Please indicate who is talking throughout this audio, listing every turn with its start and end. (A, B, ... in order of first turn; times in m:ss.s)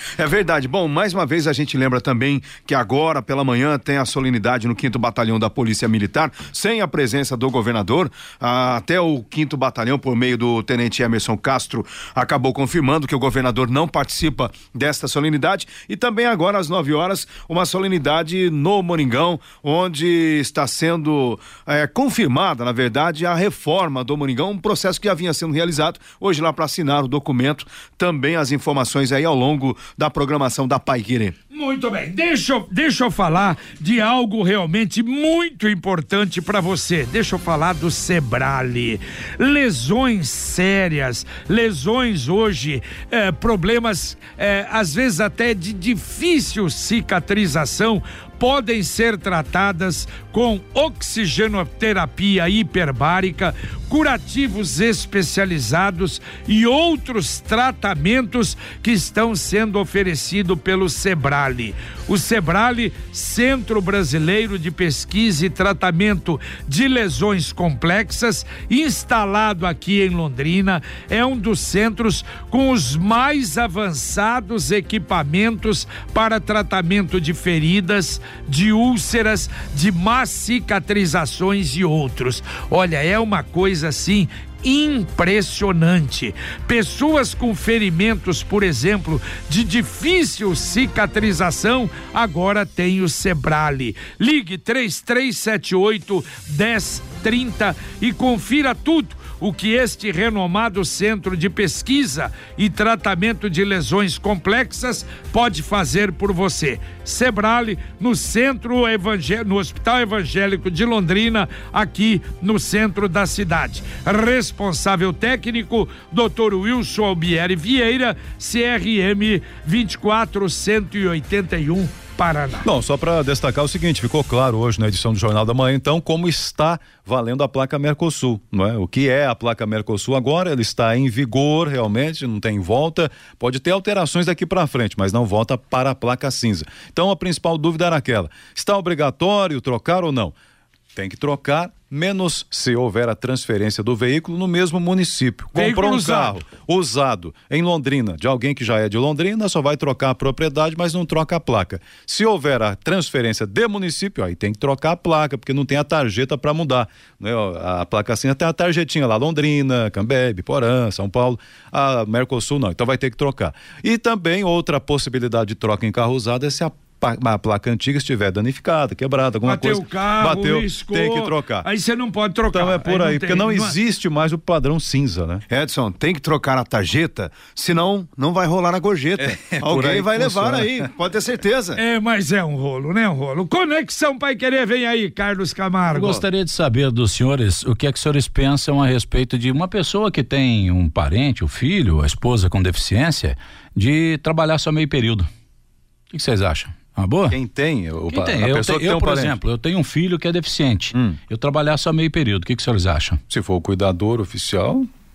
0:00.2-0:31.3 A
0:31.5-2:02.7 B
2:02.6-2:20.3 C
2:20.9-2:51.7 C
2:25.5-2:26.4 B
2:49.4-2:53.8 B
2:52.5-2:55.4 C
2:55.5-3:01.8 A
2:59.2-3:00.6 C
2:59.8-3:00.6 D
3:01.8-3:06.2 B
3:05.9-3:15.3 D
3:16.1-3:17.4 D
3:17.3-3:19.4 C
3:18.1-3:23.2 D
3:20.9-3:21.2 C
3:23.3-3:24.9 C